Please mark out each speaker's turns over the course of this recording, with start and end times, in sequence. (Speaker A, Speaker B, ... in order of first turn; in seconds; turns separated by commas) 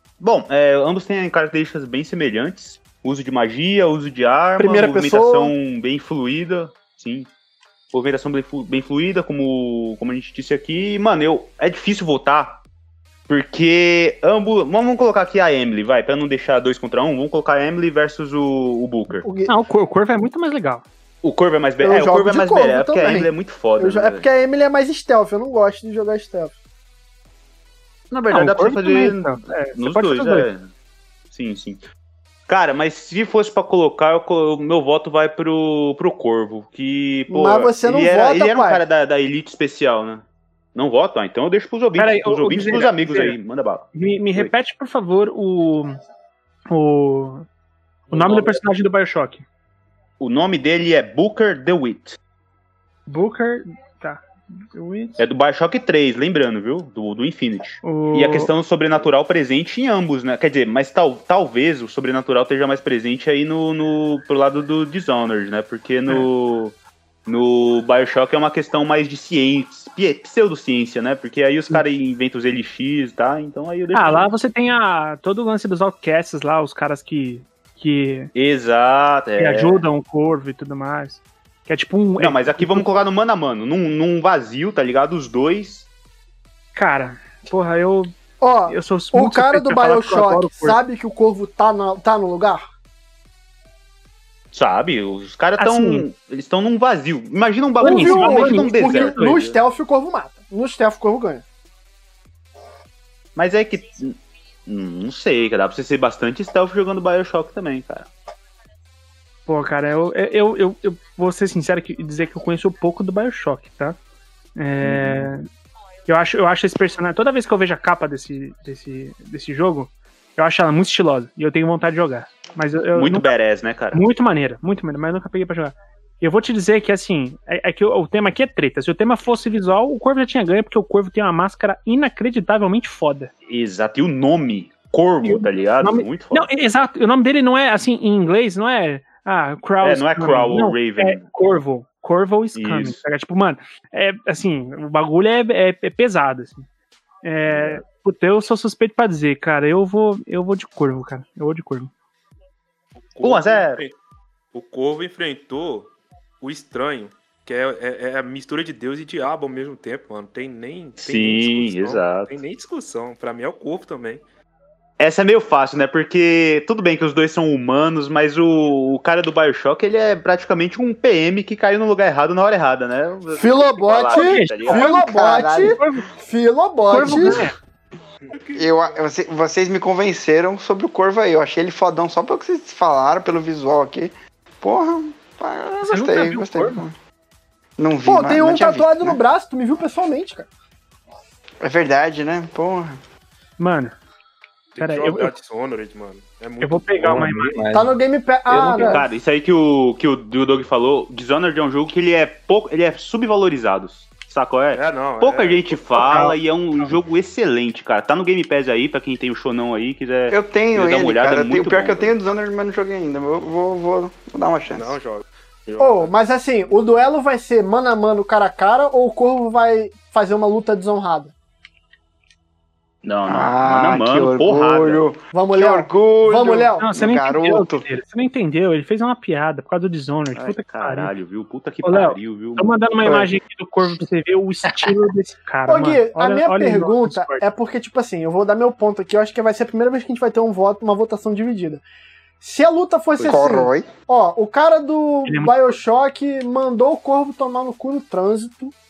Speaker A: 0.2-7.3, Speaker B: 4.6-5.5, Speaker A: 7.9-12.6, Speaker A: 13.3-19.3, Speaker B: 19.2-19.5, Speaker C: 19.5-20.9, Speaker A: 21.2-24.3, Speaker B: 21.8-26.5, Speaker A: 28.1-30.7, Speaker C: 28.3-30.5, Speaker A: 31.3-31.8, Speaker A: 32.5-44.5, Speaker B: 37.3-38.8, Speaker C: 42.0-43.4, Speaker C: 44.0-46.0, Speaker C: 46.7-47.5, Speaker C: 48.1-49.4, Speaker A: 50.2-52.2, Speaker C: 53.1-55.2, Speaker A: 55.2-66.8, Speaker C: 57.8-58.5, Speaker A: 67.3-74.2, Speaker C: 73.9-78.3, Speaker A: 78.3-79.8, Speaker C: 79.4-83.0, Speaker A: 82.2-85.9, Speaker C: 86.8-88.1, Speaker B: 88.4-92.7, Speaker C: 88.7-90.8, Speaker A: 94.5-99.6, Speaker C: 95.6-96.1, Speaker B: 97.8-101.4, Speaker C: 97.8-99.4, Speaker A: 103.4-108.1, Speaker C: 109.5-114.0, Speaker C: 114.6-115.5, Speaker A: 114.8-115.3, Speaker C: 116.1-123.3, Speaker A: 123.0-124.1, Speaker C: 123.9-133.3, Speaker A: 133.5-136.5, Speaker C: 135.2-146.7, Speaker A: 139.8-141.2, Speaker A: 142.6-143.0, Speaker C: 147.2-151.9, Speaker A: 147.5-147.8, Speaker D: 153.1-153.9, Speaker A: 153.2-153.8, Speaker D: 154.5-164.2, Speaker A: 161.0-162.3, Speaker A: 165.0-175.0, Speaker B: 173.4-177.5, Speaker C: 174.1-176.1, Speaker E: 174.8-175.8, Speaker C: 176.9-177.6, Speaker D: 178.2-179.0, Speaker E: 178.6-187.0, Speaker C: 185.8-186.8, Speaker E: 187.8-189.2, Speaker B: 188.1-190.5, Speaker E: 191.6-193.0, Speaker C: 193.6-194.0, Speaker D: 194.8-197.3, Speaker C: 194.8-195.3, Speaker C: 196.6-197.6, Speaker F: 197.0-199.0, Speaker B: 197.7-199.0, Speaker A: 198.7-212.1, Speaker D: 204.7-206.3, Speaker C: 205.9-206.3, Speaker E: 210.3-214.9, Speaker D: 214.7-216.1, Speaker B: 215.8-221.3, Speaker A: 223.0-225.1, Speaker E: 223.3-227.9, Speaker B: 225.3-226.8, Speaker C: 226.8-231.1, Speaker A: 230.3-233.2, Speaker C: 231.8-237.4, Speaker B: 235.7-241.8, Speaker B: 242.4-248.7, Speaker E: 243.2-243.9, Speaker C: 245.3-245.6